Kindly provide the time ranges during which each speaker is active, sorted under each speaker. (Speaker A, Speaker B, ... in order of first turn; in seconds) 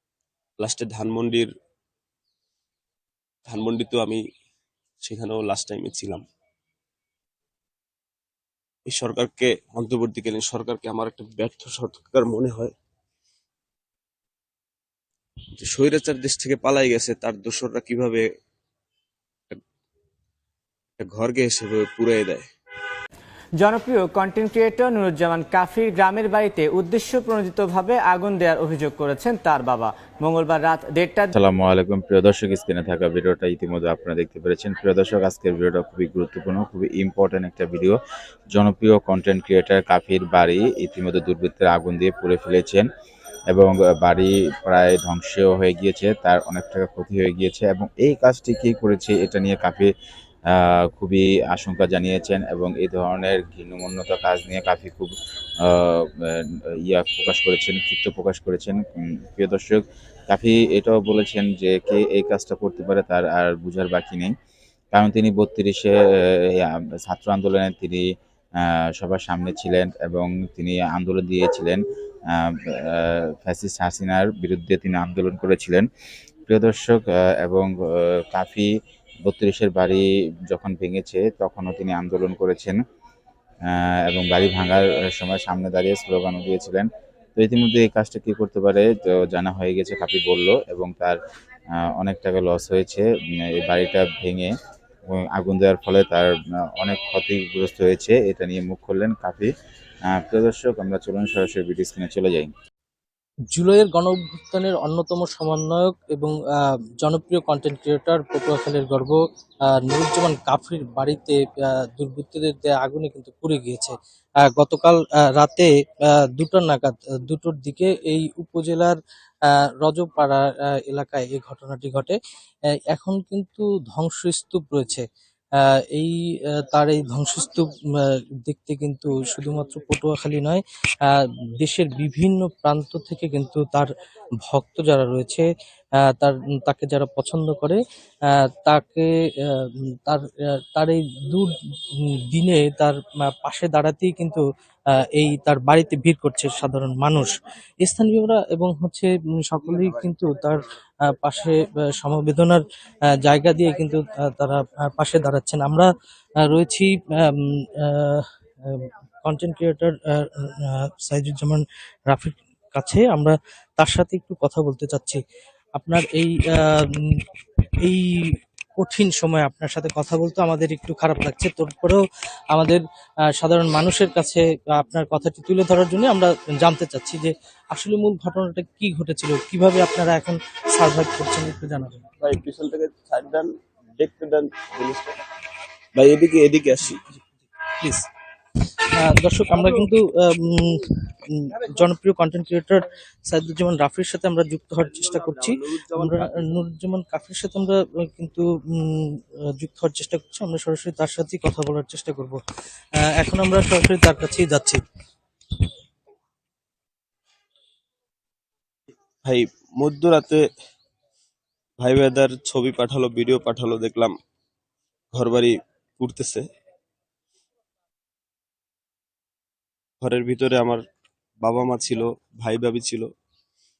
Speaker A: 0.6-1.5, 3.5-4.2, 5.0-6.2, 8.9-12.7, 15.6-18.3, 21.0-22.5, 182.2-185.2, 185.9-187.0, 195.5-195.8, 209.2-210.4, 211.8-214.1, 215.1-216.5, 220.0-220.8, 221.4-223.1
Speaker B: 23.6-31.3
Speaker C: 31.4-38.0, 38.5-42.9, 43.5-49.9, 50.5-64.3, 64.9-75.9, 76.5-78.7, 79.2-82.8, 83.7-91.2, 91.7-94.5, 95.1-99.5, 100.1-102.5
Speaker D: 103.5-119.0, 119.5-122.2, 122.9-125.0, 125.9-133.9, 134.4-135.5, 136.0-137.8, 138.3-141.5, 142.3-144.4, 145.0-152.6, 153.2-155.9, 156.4-165.2, 165.8-167.2, 167.8-172.0, 172.5-172.8, 173.4-182.0, 187.8-188.1, 188.9-202.4, 203.1-204.8